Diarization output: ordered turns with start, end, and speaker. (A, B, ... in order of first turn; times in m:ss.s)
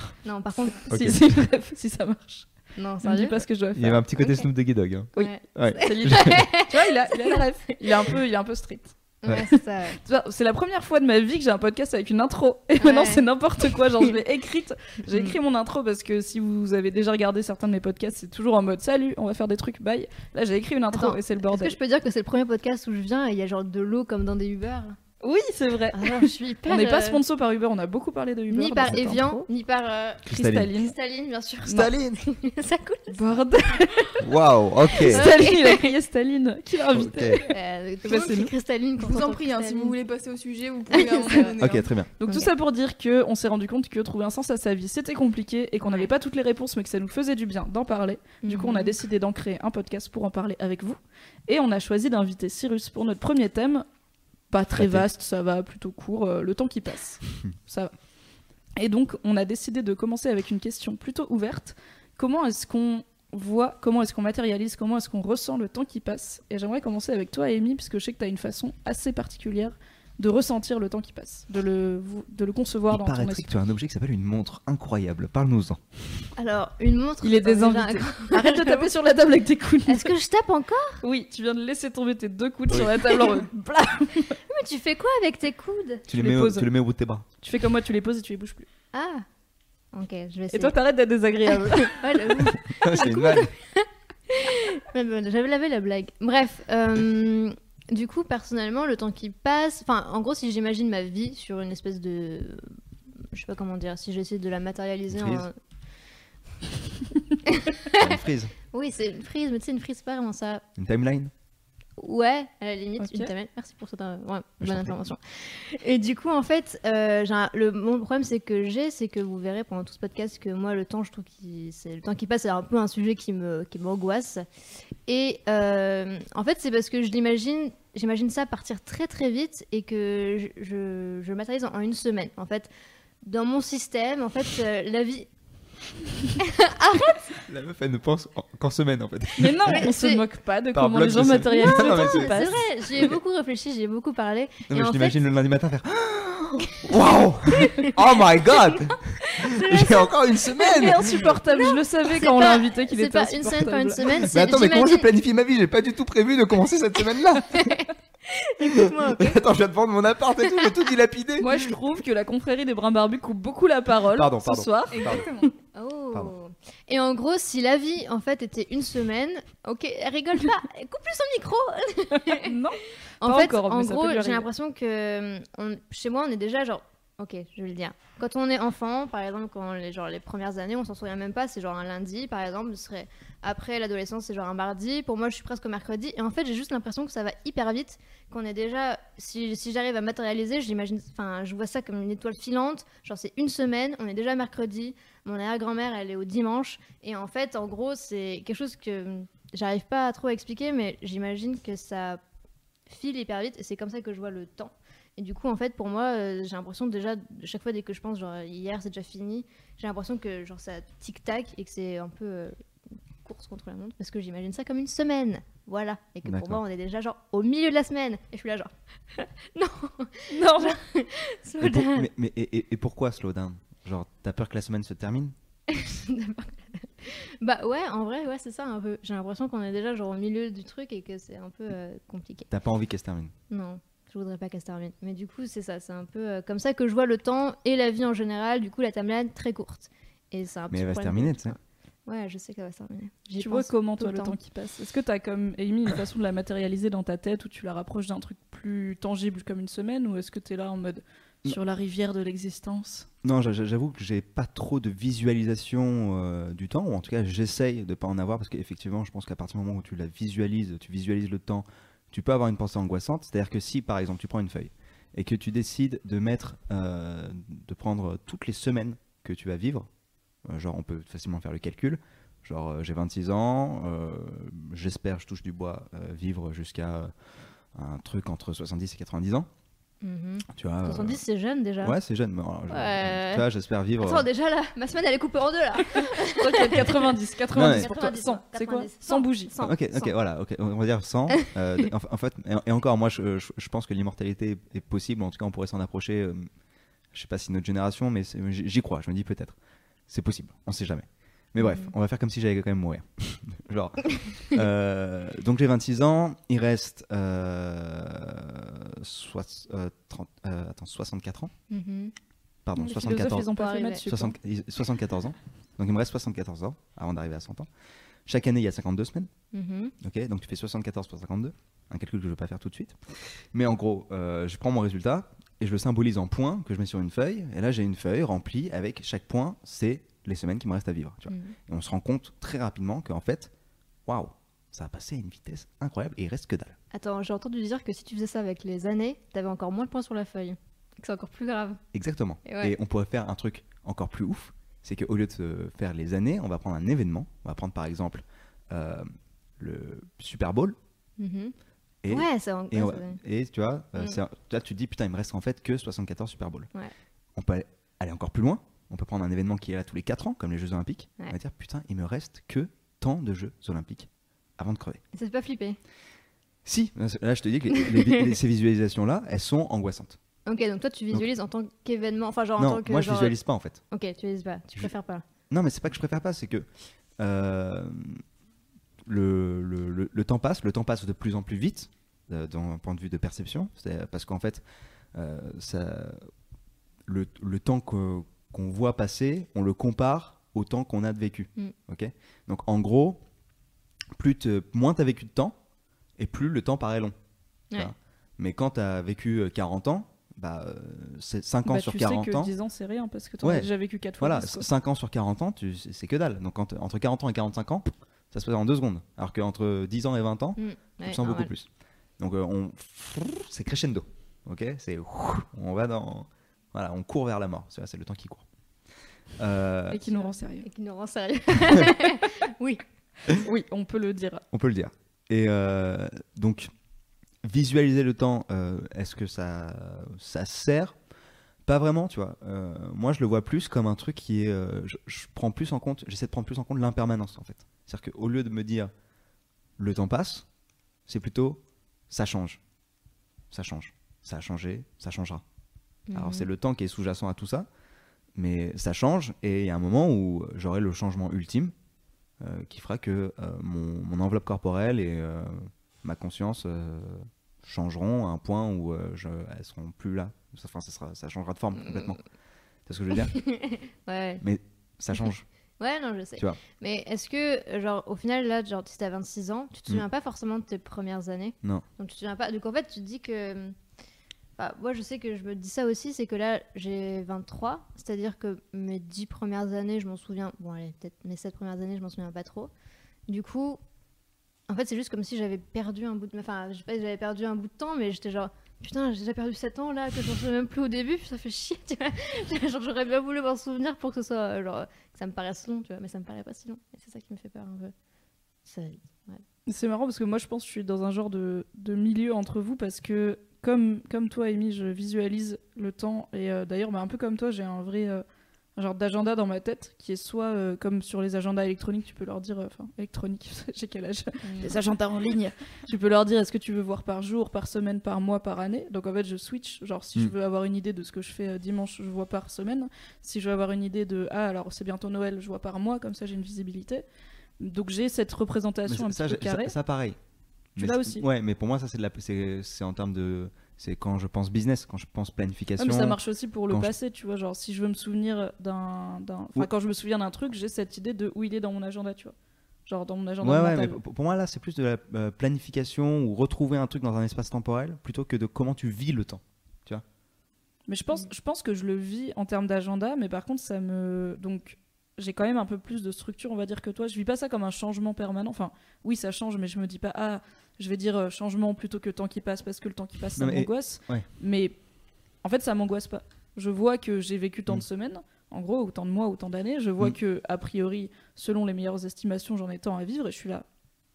0:00.2-0:00.9 A
0:00.8-0:02.5 B
0:00.9-0:01.2 C
0:02.8-0:03.4 A
0:03.0-0:04.0 B
0:03.7-0:06.4 C
0:04.2-0:04.5 A
0:05.2-0:08.0 A
0:05.2-0:08.9 B
0:09.2-0:10.0 A
0:10.0-0:21.8 B
0:12.8-0:13.2 A
0:15.1-0:15.4 A
0:20.9-0:25.0 A
0:25.2-0:29.4 B
0:25.9-0:27.2 A
0:28.5-0:30.2 A
0:30.3-0:30.7 C
0:30.3-0:30.9 B
0:30.7-0:34.2 A
0:31.7-0:32.2 C
0:33.1-0:34.2 B
0:34.2-0:35.3 C
0:35.0-0:36.0 A
0:35.0-0:38.5 B
0:36.9-0:37.4 C
0:37.5-0:40.0 A
0:39.0-0:41.9 D
0:40.9-0:41.6 A
0:41.6-0:42.1 C
0:42.2-0:53.8 B
0:48.4-0:48.9 A
0:54.5-0:57.9 B
0:54.7-0:55.0 C
0:58.8-1:13.5 B
1:12.9-1:15.8 C
1:16.4-1:18.9 A
1:17.2-1:20.1 B
1:19.9-1:21.0 A
1:21.0-1:24.4 B
1:24.5-1:26.0 A
1:26.1-1:27.2 C
1:26.1-1:26.7 B
1:27.4-1:28.6 B
1:28.9-1:29.2 A
1:29.9-1:30.8 A
1:30.5-1:32.5 B
1:31.7-1:42.7 A
1:32.8-1:33.5 C
1:43.3-1:45.5 A
1:45.1-1:45.5 C
1:47.4-1:48.2 A
1:47.9-1:48.5 C
1:48.7-1:50.6 A
1:50.8-1:51.3 C
1:52.0-2:04.4 A
1:53.0-1:53.3 B
1:54.6-1:54.9 C
2:05.0-2:12.7 A
2:13.2-2:15.3 A
2:16.4-2:17.3 A
2:17.5-2:19.9 C
2:19.4-2:23.2 B
2:19.6-2:20.2 A
2:20.7-2:22.4 C
2:21.5-2:25.2 A
2:24.7-2:31.4 C
2:27.5-2:28.0 A
2:28.6-2:35.0 A
2:30.7-2:34.3 B
2:34.3-2:37.7 C
2:37.5-2:39.4 A
2:38.6-2:41.7 C
2:41.4-2:45.3 B
2:44.1-2:45.2 C
2:44.9-2:45.5 D
2:45.7-2:52.6 A
2:52.2-2:54.5 B
2:53.2-3:22.2 A
3:22.9-3:32.6 A
3:33.2-3:42.1 A
3:36.2-3:36.6 C
3:40.3-3:40.8 B
3:41.6-3:45.3 C
3:45.7-3:52.5 A
3:52.5-3:53.3 C
3:53.5-4:04.4 A
4:00.7-4:01.6 C
4:03.4-4:13.1 B
4:13.2-4:29.9 C
4:30.4-4:37.1 C
4:37.7-4:39.5 C
4:40.0-4:42.0 A
4:40.5-4:41.2 C
4:41.8-4:44.3 C
4:42.7-4:43.5 A
4:44.0-4:47.1 A
4:46.2-4:49.5 B
4:47.5-4:47.9 C
4:47.7-4:50.1 A
4:49.6-4:56.5 C
4:57.1-4:59.6 C
5:00.1-5:11.5 C
5:01.6-5:01.9 A
5:11.7-5:12.1 A
5:12.6-5:13.5 C
5:12.8-5:14.3 B
5:13.5-5:14.0 A
5:14.0-5:17.7 C
5:18.2-5:19.3 C
5:19.5-5:19.9 A
5:20.0-5:33.5 C
5:31.3-5:31.5 A
5:34.0-5:36.8 C
5:36.9-5:41.8 A
5:41.9-5:50.8 C
5:42.4-5:42.7 A
5:51.2-5:51.5 A
5:52.0-5:56.7 C
5:52.1-5:53.2 A
5:57.4-6:05.0 C
6:05.1-6:05.8 A
6:06.6-6:10.2 C
6:07.8-6:08.2 A
6:10.4-6:13.3 A
6:12.6-6:13.8 C
6:13.9-6:15.2 A
6:15.5-6:16.7 C
6:17.2-6:18.2 C
6:19.0-6:24.6 C
6:25.1-6:26.3 C
6:27.0-6:33.2 C
6:34.2-6:35.6 C
6:36.2-6:37.1 C
6:37.7-6:42.5 C
6:41.6-6:44.6 B
6:43.4-6:43.7 C
6:44.2-6:51.7 C
6:50.6-6:51.5 A
6:52.2-6:58.4 C
6:59.4-7:00.1 C
6:59.9-7:00.7 B
7:00.2-7:03.4 A
7:03.4-7:04.4 B
7:04.5-7:06.7 C
7:07.4-7:10.9 C
7:11.6-7:18.9 C
7:19.8-7:20.4 C
7:21.0-7:22.6 C
7:23.5-7:25.4 C
7:26.1-7:26.5 A
7:26.1-7:27.7 C
7:28.4-7:31.7 C
7:32.4-7:42.2 C
7:42.8-7:43.4 C
7:43.2-7:44.4 A
7:44.4-7:45.4 C
7:45.8-7:53.8 A
7:54.6-8:02.7 A
8:03.3-8:03.8 A
8:04.7-8:17.9 A
8:18.6-8:19.4 A
8:19.6-8:28.2 B
8:28.8-8:47.0 B
8:34.4-8:34.8 A
8:47.6-8:49.7 B
8:48.9-8:50.2 C
8:50.8-8:56.9 C
8:50.8-8:51.2 B
8:55.8-9:02.3 B
9:02.9-9:04.0 B
9:03.4-9:10.0 C
9:10.9-9:24.7 B
9:23.4-9:24.2 C
9:25.4-9:33.6 B